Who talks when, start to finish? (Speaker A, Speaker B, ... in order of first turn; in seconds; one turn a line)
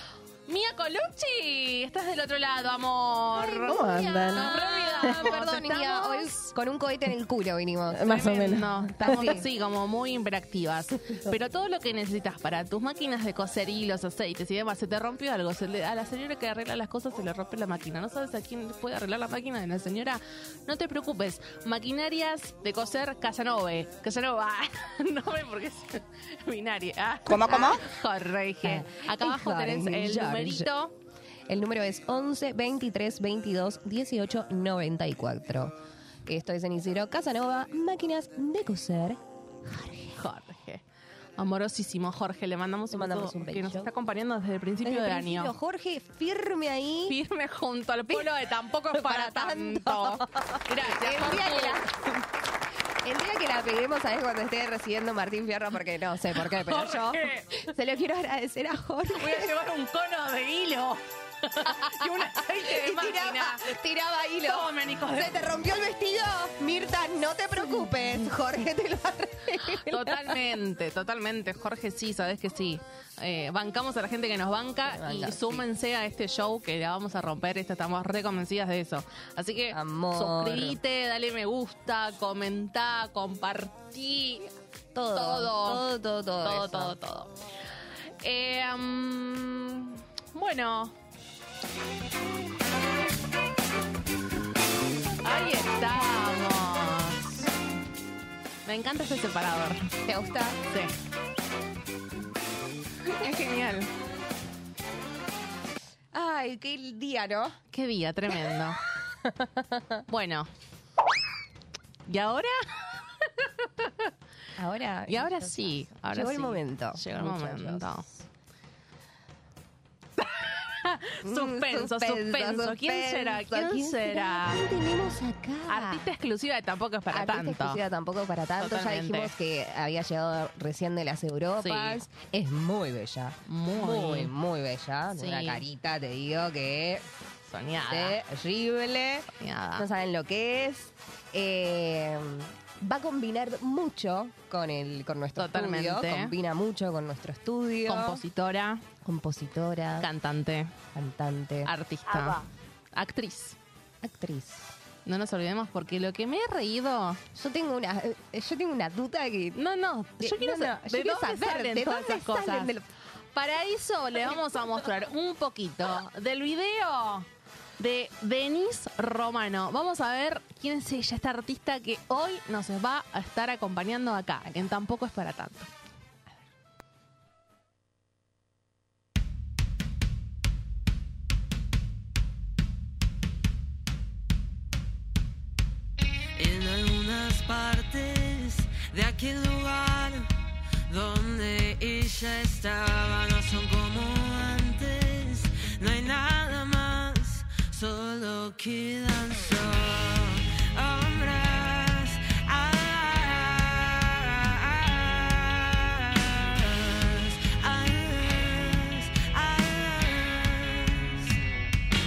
Speaker A: 0.5-6.5
Speaker B: 3.3-9.4
Speaker A: 7.9-30.9
Speaker B: 27.3-27.8
Speaker B: 28.6-30.7
Speaker B: 31.5-35.7
Speaker B: 36.2-40.2
Speaker A: 40.1-40.8
Speaker A: 41.4-45.5
Speaker B: 42.9-43.9
Speaker B: 44.8-47.2
Speaker A: 47.1-52.1
Speaker B: 48.9-51.9
Speaker B: 53.0-59.5
Speaker A: 56.4-57.6
Speaker A: 59.1-63.7
Speaker B: 62.0-70.4
Speaker A: 64.4-65.5
Speaker A: 69.8-84.5
Speaker B: 74.8-75.6
Speaker B: 79.7-80.8
Speaker B: 84.9-86.9
Speaker A: 85.1-85.8
Speaker A: 86.4-87.3
Speaker A: 88.2-90.9
Speaker A: 95.2-97.3
Speaker A: 98.7-99.9
Speaker B: 100.0-100.6
Speaker A: 103.1-103.9
Speaker B: 106.1-107.6
Speaker A: 107.7-108.8
Speaker B: 108.9-110.0
Speaker A: 110.1-110.5
Speaker A: 112.0-114.1
Speaker B: 114.6-118.1
Speaker A: 115.1-118.1
Speaker A: 120.2-124.7
Speaker B: 121.2-126.0
Speaker A: 125.7-127.8
Speaker B: 127.1-137.1
Speaker A: 128.6-129.3
Speaker A: 131.6-132.0
Speaker A: 133.5-134.3
Speaker A: 135.1-135.6
Speaker A: 137.5-138.2
Speaker B: 137.9-148.2
Speaker A: 139.4-139.9
Speaker A: 145.3-146.3
Speaker A: 147.8-148.8
Speaker B: 149.0-150.1
Speaker A: 150.0-150.7
Speaker B: 150.9-151.7
Speaker A: 151.6-153.6
Speaker B: 154.0-154.7
Speaker A: 155.1-157.2
Speaker B: 157.3-159.6
Speaker A: 159.5-162.7
Speaker B: 160.2-162.8
Speaker A: 163.3-167.3
Speaker A: 167.8-175.7
Speaker C: 186.3-190.3
Speaker C: 190.9-211.4